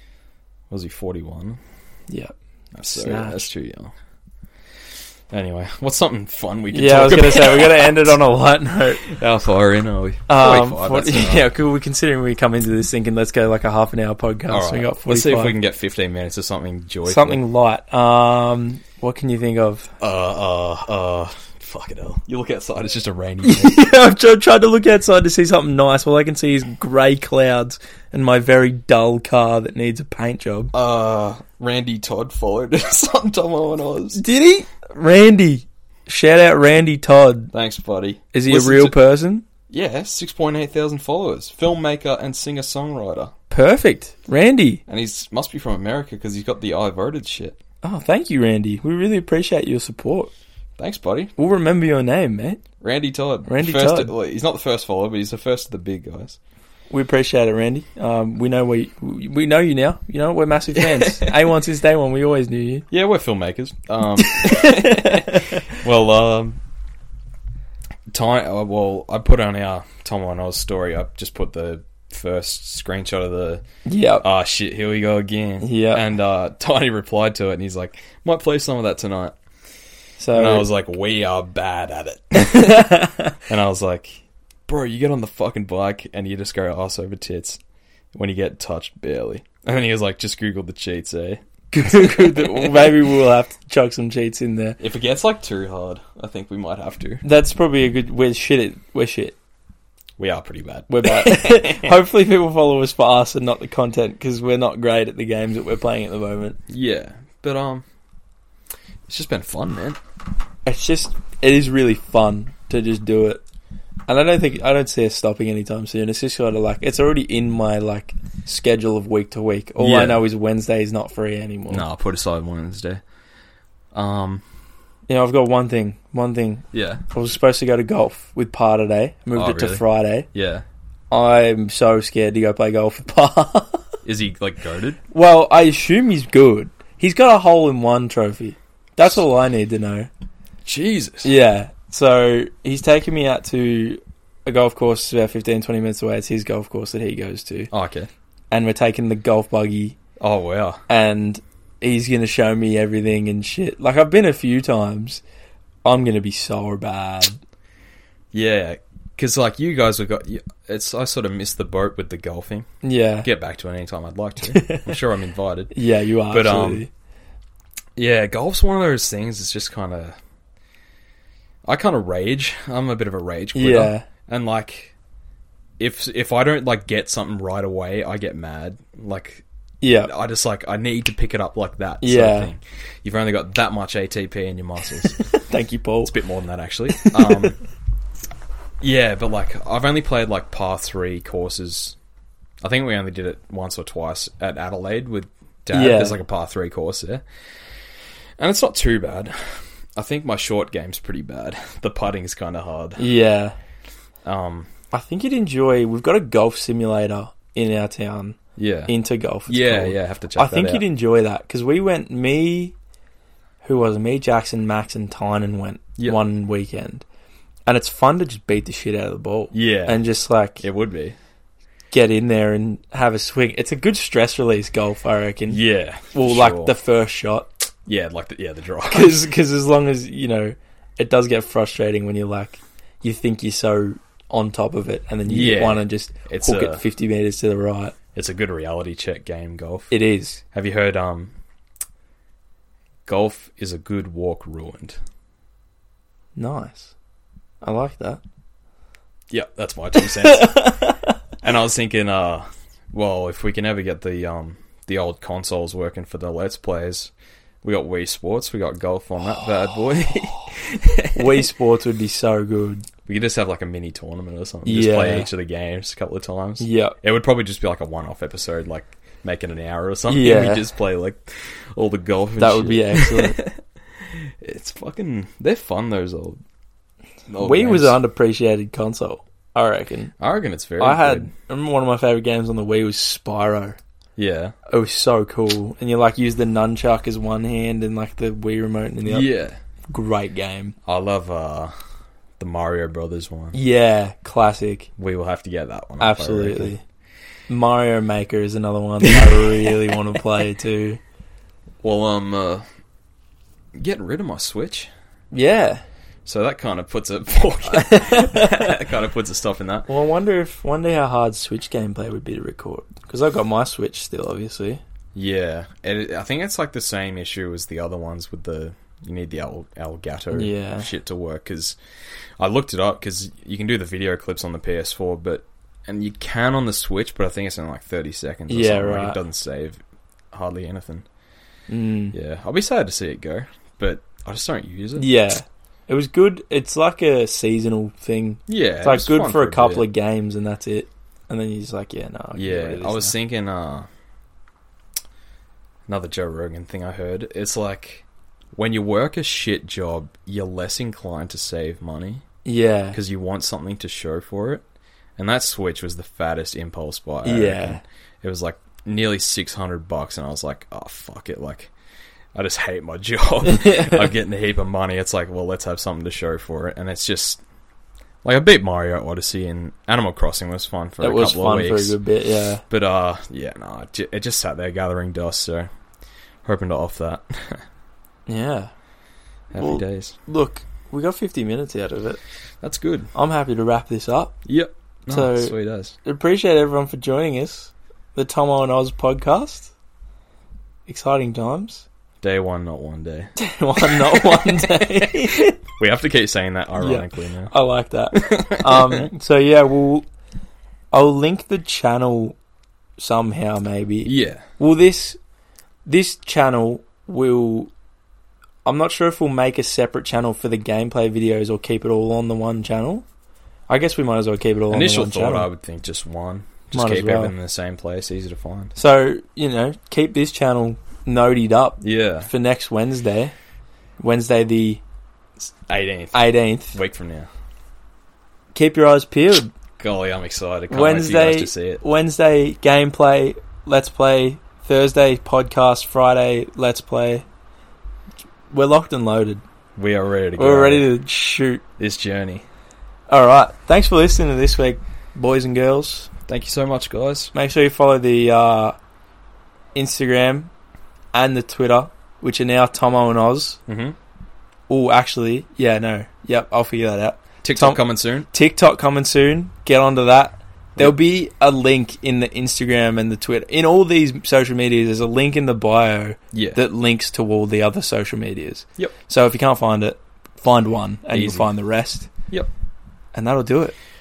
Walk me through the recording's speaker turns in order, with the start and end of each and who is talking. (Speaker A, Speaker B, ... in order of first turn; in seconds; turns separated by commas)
Speaker A: 0.7-1.6, Speaker B: 2.1-2.3, Speaker A: 2.7-3.9, Speaker B: 2.9-3.5, Speaker A: 5.3-8.2, Speaker B: 6.7-9.1, Speaker A: 9.0-11.5, Speaker B: 10.3-15.5, Speaker A: 14.5-17.4, Speaker B: 17.1-19.9, Speaker A: 20.0-23.8, Speaker B: 23.4-30.7, Speaker A: 30.7-34.2, Speaker B: 34.1-37.5, Speaker A: 37.5-39.0, Speaker B: 38.3-39.4, Speaker A: 39.7-43.3, Speaker B: 43.5-44.8, Speaker A: 44.9-47.6, Speaker B: 47.8-50.3, Speaker A: 50.8-51.3, Speaker B: 51.4-52.6, Speaker A: 52.8-56.4, Speaker B: 53.5-54.1, Speaker B: 56.9-62.9, Speaker A: 60.8-61.3, Speaker A: 62.9-66.6, Speaker B: 64.2-65.7, Speaker A: 68.1-73.6, Speaker B: 73.8-74.2, Speaker A: 74.2-79.4, Speaker B: 75.6-76.0, Speaker B: 80.2-80.7, Speaker A: 80.3-82.9, Speaker B: 82.3-83.4, Speaker A: 83.5-87.6, Speaker A: 88.1-93.1, Speaker B: 91.7-94.8, Speaker A: 94.8-97.2, Speaker B: 97.2-99.3, Speaker A: 100.2-102.0, Speaker B: 100.9-106.6, Speaker A: 106.7-107.8, Speaker A: 109.1-110.0, Speaker B: 110.7-113.4, Speaker B: 114.1-121.8, Speaker A: 119.8-120.2, Speaker A: 121.7-123.0, Speaker A: 123.9-124.4, Speaker B: 125.1-130.3, Speaker A: 126.7-127.0, Speaker A: 129.3-130.6, Speaker B: 131.1-133.8, Speaker A: 134.0-135.0, Speaker B: 135.1-140.1, Speaker A: 140.6-141.3, Speaker B: 141.2-147.7, Speaker A: 147.7-148.1, Speaker B: 148.5-150.0, Speaker A: 150.2-150.8, Speaker B: 150.9-155.2, Speaker B: 155.8-157.4, Speaker A: 158.3-162.7, Speaker B: 162.8-163.3, Speaker A: 163.2-165.7, Speaker B: 164.4-165.0, Speaker B: 165.7-166.9, Speaker A: 166.3-166.8, Speaker A: 168.0-170.2, Speaker A: 171.7-174.9, Speaker B: 173.5-174.1, Speaker A: 175.8-179.4, Speaker B: 179.8-180.1, Speaker A: 180.0-185.2, Speaker B: 182.0-182.5, Speaker B: 185.1-186.1, Speaker A: 186.0-187.6, Speaker B: 186.9-187.5, Speaker A: 188.8-191.9, Speaker A: 192.6-197.2, Speaker B: 195.7-196.2, Speaker A: 198.4-203.1, Speaker B: 203.0-203.5, Speaker A: 204.2-204.7, Speaker B: 204.9-212.7, Speaker A: 208.6-208.9, Speaker A: 209.5-210.8, Speaker B: 213.6-217.0, Speaker B: 217.7-220.6, Speaker A: 219.5-220.0, Speaker A: 220.6-221.2, Speaker B: 221.9-225.6, Speaker A: 225.5-226.7, Speaker B: 226.1-227.5, Speaker A: 227.8-229.2, Speaker B: 228.8-237.9, Speaker A: 235.2-236.8, Speaker A: 238.1-239.9, Speaker B: 239.9-240.4, Speaker A: 240.5-241.3, Speaker A: 243.1-245.0, Speaker B: 246.3-246.9, Speaker B: 247.6-248.2, Speaker A: 249.3-250.8, Speaker B: 250.0-251.1, Speaker A: 251.4-257.1, Speaker A: 257.6-261.5, Speaker B: 261.1-262.9, Speaker A: 263.1-276.4, Speaker B: 264.6-265.3, Speaker B: 266.6-266.9, Speaker B: 270.1-270.7, Speaker B: 272.4-273.4, Speaker A: 277.3-278.0, Speaker B: 277.4-280.1, Speaker A: 280.2-281.3, Speaker B: 280.8-283.8, Speaker A: 284.2-284.5, Speaker B: 284.7-289.3, Speaker A: 289.1-289.6, Speaker B: 289.9-290.8, Speaker A: 290.9-291.7, Speaker A: 292.4-293.6, Speaker B: 293.5-294.9, Speaker A: 295.0-296.7, Speaker B: 296.0-296.8, Speaker B: 297.5-301.0, Speaker A: 299.0-299.4, Speaker A: 301.8-302.6, Speaker A: 303.7-304.9, Speaker B: 305.3-305.8, Speaker A: 306.2-309.9, Speaker B: 307.7-308.8, Speaker B: 309.9-314.8, Speaker A: 315.1-321.8, Speaker B: 320.3-320.9, Speaker A: 322.4-329.8, Speaker B: 328.5-329.2, Speaker A: 330.3-331.1, Speaker B: 331.7-332.1, Speaker A: 332.1-335.1, Speaker B: 335.0-343.1, Speaker A: 338.5-339.8, Speaker A: 342.3-343.9, Speaker A: 345.9-352.2, Speaker B: 352.4-353.0, Speaker A: 352.9-354.6, Speaker A: 355.2-361.7, Speaker B: 357.2-357.8, Speaker A: 362.3-367.4, Speaker B: 363.4-364.1, Speaker A: 368.2-372.0, Speaker B: 371.0-372.6, Speaker A: 372.7-375.7, Speaker A: 376.4-377.6, Speaker B: 378.3-378.7, Speaker A: 379.5-380.2, Speaker B: 379.6-382.2, Speaker A: 382.6-383.1, Speaker B: 383.1-384.4, Speaker A: 384.4-385.9, Speaker B: 385.1-389.7, Speaker B: 390.9-391.8, Speaker A: 392.2-397.5, Speaker B: 393.4-395.6, Speaker B: 396.8-400.1, Speaker A: 398.1-399.1, Speaker B: 400.9-402.4, Speaker B: 403.0-405.2, Speaker A: 404.0-404.4, Speaker B: 405.9-407.7, Speaker B: 408.6-413.0, Speaker B: 413.7-415.5, Speaker A: 414.7-418.7, Speaker B: 416.7-417.3, Speaker B: 418.7-423.3, Speaker A: 421.8-422.3, Speaker B: 424.0-424.8, Speaker A: 425.4-427.3, Speaker B: 426.1-426.8, Speaker B: 428.5-429.5, Speaker A: 429.8-431.8, Speaker B: 430.7-437.2, Speaker B: 438.5-439.4, Speaker A: 439.8-440.9, Speaker B: 440.4-441.6, Speaker A: 441.8-442.4, Speaker B: 443.1-446.1, Speaker A: 446.3-447.3, Speaker B: 447.3-448.8, Speaker B: 449.7-450.5, Speaker B: 451.1-453.6, Speaker A: 453.7-453.9, Speaker B: 454.7-472.1, Speaker A: 457.4-458.3, Speaker A: 466.3-466.6, Speaker A: 471.1-471.5, Speaker B: 473.1-473.8